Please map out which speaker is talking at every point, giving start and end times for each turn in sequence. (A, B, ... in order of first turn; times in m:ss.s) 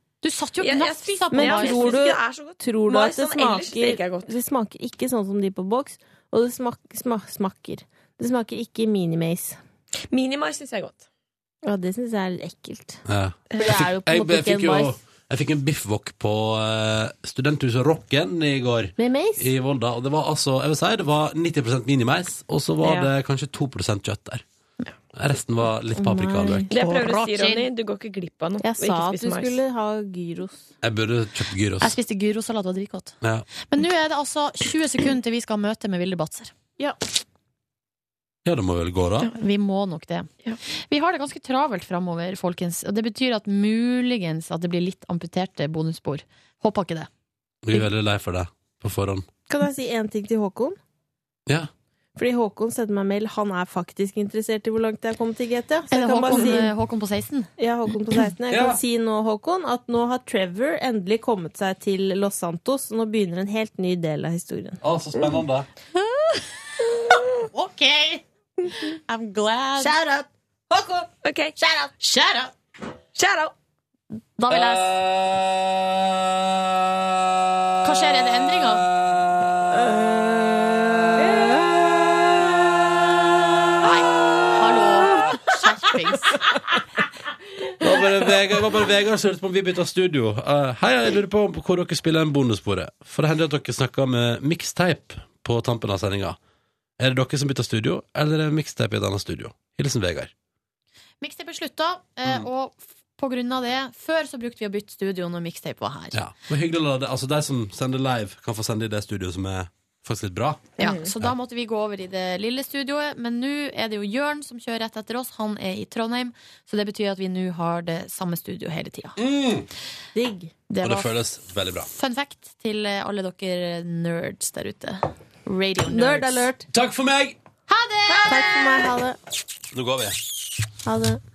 0:00.2-0:02.0 A
0:00.6-0:04.3 B
0:01.3-0:09.6 C
0:10.1-0:11.1 B
0:11.6-0:13.0 C
0:13.1-0:24.4 D
0:13.6-0:15.0 C
0:19.0-0:19.5 C
0:22.8-0:23.1 B
0:25.1-0:26.7 D
0:26.0-0:26.7 C
0:26.7-0:29.6 B
0:26.7-0:27.7 A
0:28.6-0:30.7 C
0:30.8-0:32.0 D
0:31.8-0:33.2 A
0:33.2-0:33.5 D
0:33.7-0:36.5 A
0:38.4-0:39.3 D
0:39.3-0:40.3 A
0:40.9-0:47.1 A
0:47.6-0:49.3 D
0:49.5-0:50.8 C
0:52.2-0:56.7 C
0:55.9-0:57.5 A
0:57.6-1:04.8 C
0:58.5-0:58.8 D
1:04.8-1:05.7 D
1:06.0-1:10.0 A
1:09.8-1:11.9 C
1:11.2-1:11.6 B
1:12.0-1:12.5 A
1:13.2-1:13.5 B
1:14.4-1:15.0 A
1:17.8-1:18.9 A
1:19.8-1:21.6 C
1:21.3-1:21.6 B
1:23.8-1:26.5 A
1:27.8-1:36.4 D
1:37.0-1:40.3 D
1:41.2-1:46.2 A
1:46.1-1:51.3 D
1:50.8-1:59.2 A
1:50.8-1:51.1 B
1:59.2-1:59.7 D
2:00.2-2:00.5 C
2:00.7-2:01.1 A
2:00.8-2:01.9 D
2:01.9-2:06.5 A
2:05.9-2:06.7 C
2:06.7-2:07.4 D
2:07.7-2:08.7 A
2:08.2-2:09.2 C
2:09.7-2:10.2 D
2:10.8-2:11.2 C